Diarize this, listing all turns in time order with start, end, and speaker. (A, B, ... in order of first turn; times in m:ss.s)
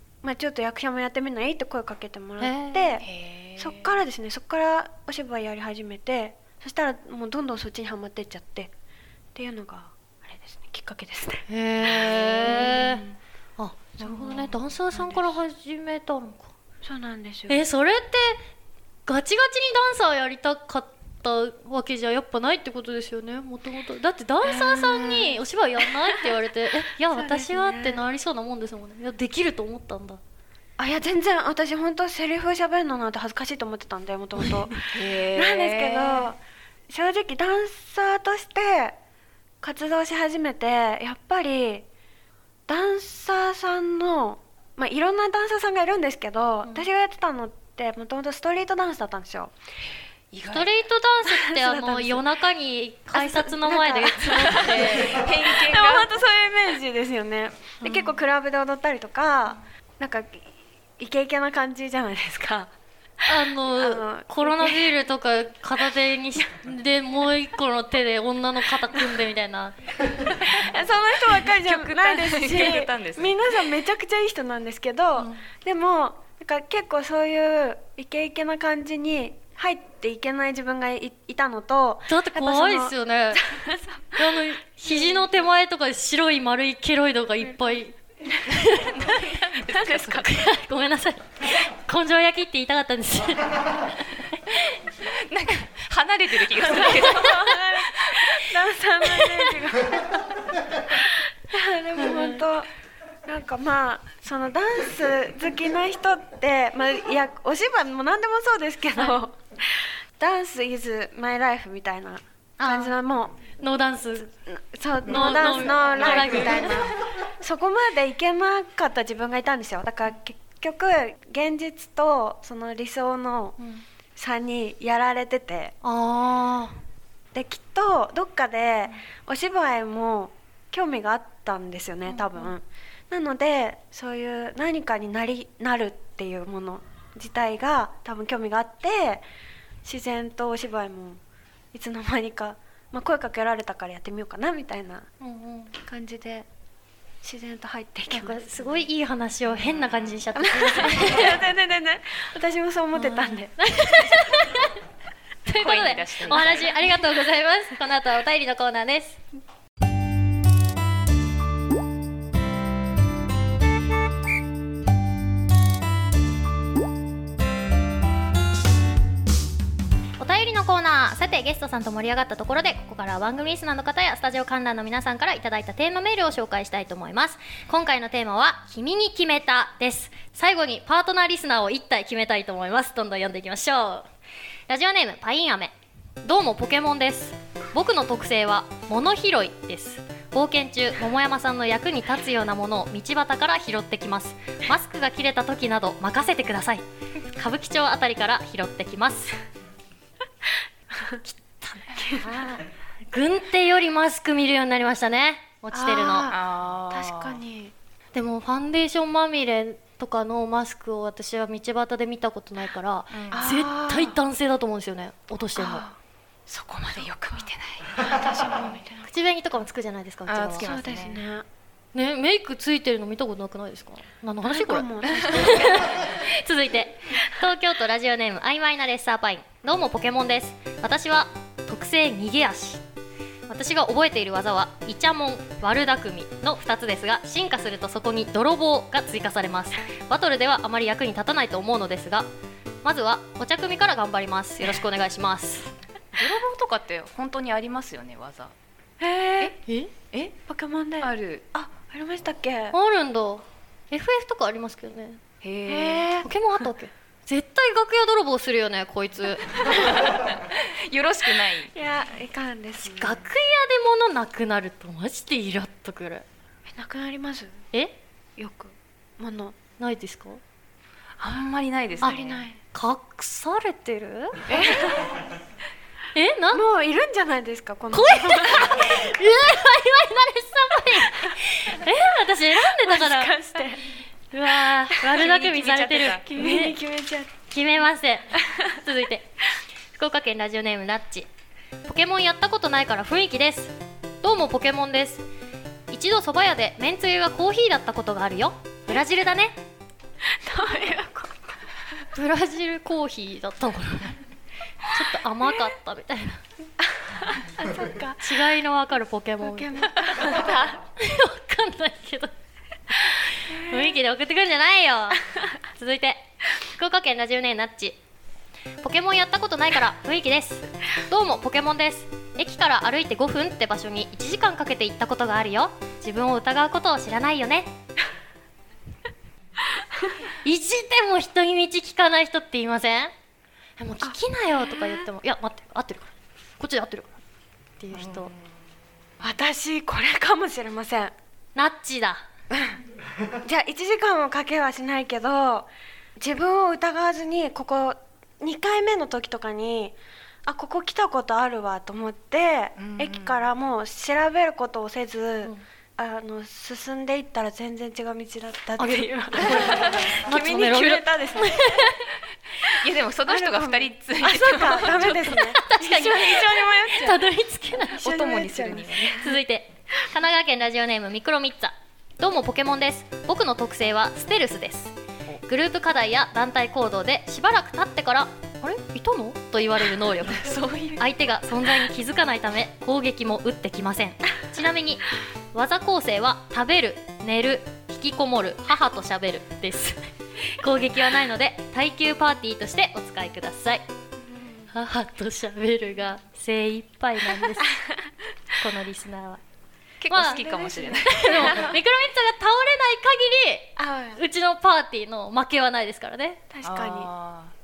0:00.2-0:08.7 A
0:02.4-0:03.0 B
0:03.0-0:03.9 C
0:09.3-0:13.1 A
0:11.5-0:13.0 B
0:13.6-0:16.5 B
0:14.0-0:14.5 A
0:16.8-0:17.6 A
0:17.5-0:18.4 B
0:19.1-0:30.2 B
0:24.4-0:25.4 A
0:27.1-0:28.0 A
0:30.8-0:36.4 A
0:34.9-0:36.3 C
0:36.9-0:39.0 A
0:39.6-0:41.9 A
0:42.7-0:49.5 A
0:50.3-0:50.7 C
0:50.5-0:55.2 B
0:51.3-0:52.2 A
0:53.1-1:02.7 A
0:54.5-0:56.1 C
0:57.8-0:58.2 B
1:03.2-1:10.5 B
1:03.3-1:04.9 A
1:10.4-1:24.4 A
1:10.5-1:13.4 C
1:22.1-1:23.5 B
1:24.2-1:29.2 B
1:28.5-1:30.3 C
1:29.7-1:30.1 A
1:30.1-1:34.7 B
1:35.1-1:38.4 C
1:36.7-1:40.3 A
1:36.8-1:37.6 B
1:39.0-1:39.5 B
1:40.9-1:42.7 A
1:42.0-1:42.4 B
1:43.2-1:53.3 A
1:52.6-1:52.9 B
1:53.6-1:54.3 B
1:54.5-2:03.6 A
1:55.0-1:56.9 B
1:55.1-1:56.5 C
2:04.2-2:05.7 A
2:05.8-2:06.8 B
2:07.3-2:19.2 A
2:12.1-2:12.5 B
2:19.8-2:21.2 A
2:21.7-2:25.1 A
2:25.2-2:25.7 B
2:25.8-2:26.4 A
2:27.2-2:28.5 A
2:28.1-2:31.4 B
2:29.6-2:30.2 C
2:30.4-2:34.1 A
2:32.9-2:34.8 B
2:35.4-2:39.2 B
2:35.5-2:36.8 C
2:50.2-3:04.1 B
3:04.7-3:19.4 B
3:21.2-3:26.3 B
3:22.0-3:22.4 A
3:25.7-3:27.7 A
3:26.3-3:27.4 C
3:28.1-3:35.8 B
3:33.1-3:33.5 C
3:33.3-3:34.2 A
3:35.6-3:36.0 A
3:36.5-3:38.8 C
3:38.2-3:39.0 A
3:39.1-3:40.7 B
3:40.3-3:41.2 C
3:40.6-3:41.4 A
3:41.9-3:52.8 B
3:44.4-3:45.8 A
3:45.1-3:46.0 C
3:53.5-4:02.3 B
4:02.8-4:05.7 B
4:06.1-4:08.5 C
4:09.0-4:09.5 A
4:09.6-4:09.9 B
4:10.5-4:12.8 A
4:11.0-4:11.4 C
4:12.7-4:20.1 B
4:15.4-4:16.1 C
4:15.7-4:16.3 A
4:19.9-4:21.7 C
4:21.7-4:23.2 A
4:22.8-4:26.2 B
4:26.7-4:27.6 A
4:28.4-4:29.6 A
4:29.8-4:30.4 B
4:31.2-4:32.4 C
4:32.0-4:32.6 A
4:32.0-4:34.4 B
4:34.5-4:35.0 C
4:34.5-4:35.1 A
4:36.1-4:36.6 B
4:36.5-4:39.0 A
4:37.9-4:43.4 B
4:42.6-4:43.8 A
4:44.3-4:46.8 B
4:45.0-4:46.3 C
4:46.2-4:47.4 A
4:47.5-4:49.3 B
4:49.9-4:51.3 B
4:51.8-4:55.2 B
4:55.9-4:59.6 B
5:00.3-5:01.6 A
5:02.1-5:04.2 B
5:04.8-5:06.4 B
5:06.8-5:08.3 A
5:08.2-5:10.4 B
5:09.4-5:10.8 A
5:11.0-5:12.3 B
5:12.9-5:18.0 B
5:18.8-5:27.7 B
5:29.8-5:30.1 A
5:30.4-5:33.1 B
5:33.8-5:37.2 B
5:34.7-5:35.1 A
5:37.8-5:38.3 B
5:37.9-5:38.4 C
5:39.2-5:41.1 A
5:41.5-5:42.2 B
5:42.5-5:42.8 A
5:43.4-6:01.8 A
5:52.8-5:53.5 C
5:58.8-6:02.2 B
5:59.4-6:00.0 C
6:02.6-6:05.5 C
6:03.3-6:07.2 A
6:05.0-6:08.0 B
6:07.9-6:09.4 A
6:08.0-6:09.2 C
6:09.2-6:14.9 B
6:15.4-6:33.8 B
6:20.3-6:21.0 C
6:34.3-6:34.6 A
6:34.7-6:37.8 B
6:38.6-6:39.4 B
6:40.0-6:41.6 C
6:40.1-6:40.4 B
6:40.4-6:41.7 A
6:41.0-6:46.4 B
6:43.8-6:44.2 A
6:46.5-6:47.1 A
6:46.6-6:47.5 C